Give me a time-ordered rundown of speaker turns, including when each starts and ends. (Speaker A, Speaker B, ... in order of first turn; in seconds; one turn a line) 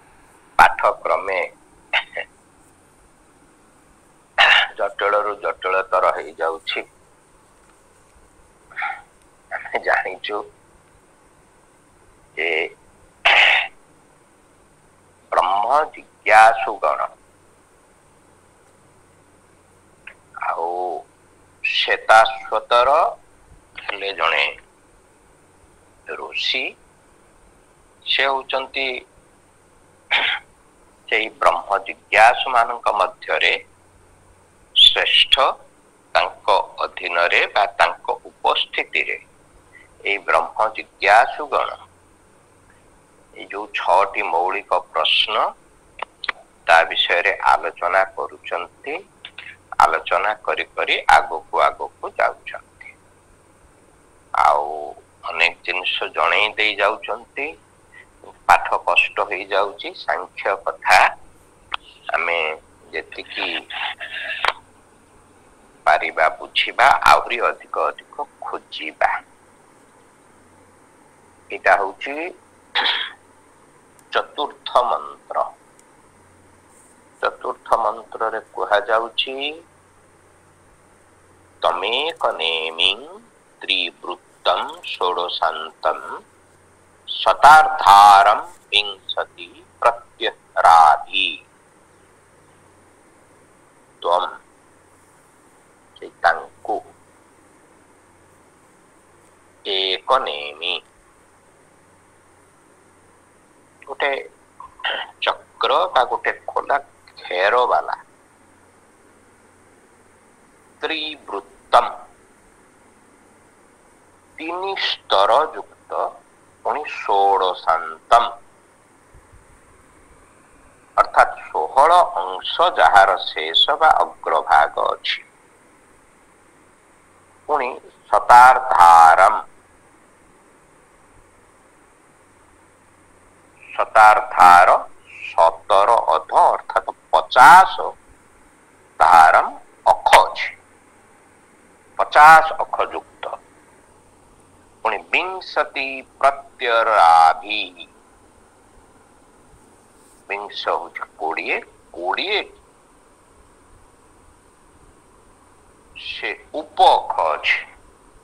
Speaker A: 0.6-2.2
Speaker A: 4.4-6.8
Speaker A: 9.5-10.4
Speaker A: 12.3-12.7
Speaker A: 13.2-13.7
Speaker A: 15.3-17.1
Speaker A: 20.4-21.0
Speaker A: 21.7-23.0
Speaker A: 23.8-24.5
Speaker A: 26.1-26.6
Speaker A: 28.1-28.9
Speaker A: 30.1-30.4
Speaker A: 31.1-33.6
Speaker A: 34.8-35.5
Speaker A: 36.1-39.2
Speaker A: 40.1-41.8
Speaker A: 43.4-45.4
Speaker A: 46.6-49.0
Speaker A: 49.8-52.9
Speaker A: 54.4-57.5
Speaker A: 58.3-61.0
Speaker A: 62.1-64.5
Speaker A: 65.8-69.1
Speaker A: 71.5-72.2
Speaker A: 72.7-73.0
Speaker A: 74.1-75.5
Speaker A: 77.2-79.5
Speaker A: 81.6-83.1
Speaker A: 83.6-86.1
Speaker A: 87.2-91.4
Speaker A: 94.0-94.3
Speaker A: 96.0-96.8
Speaker A: 99.7-100.8
Speaker A: 103.9-104.2
Speaker A: 104.8-108.0
Speaker A: 110.8-111.9
Speaker A: 114.4-116.1
Speaker A: 116.6-118.3
Speaker A: 121.0-125.2
Speaker A: 127.5-129.4
Speaker A: 133.7-137.9
Speaker A: 139.0-140.5
Speaker A: 142.0-143.4
Speaker A: 144.8-147.9
Speaker A: 150.3-152.6
Speaker A: 156.0-157.6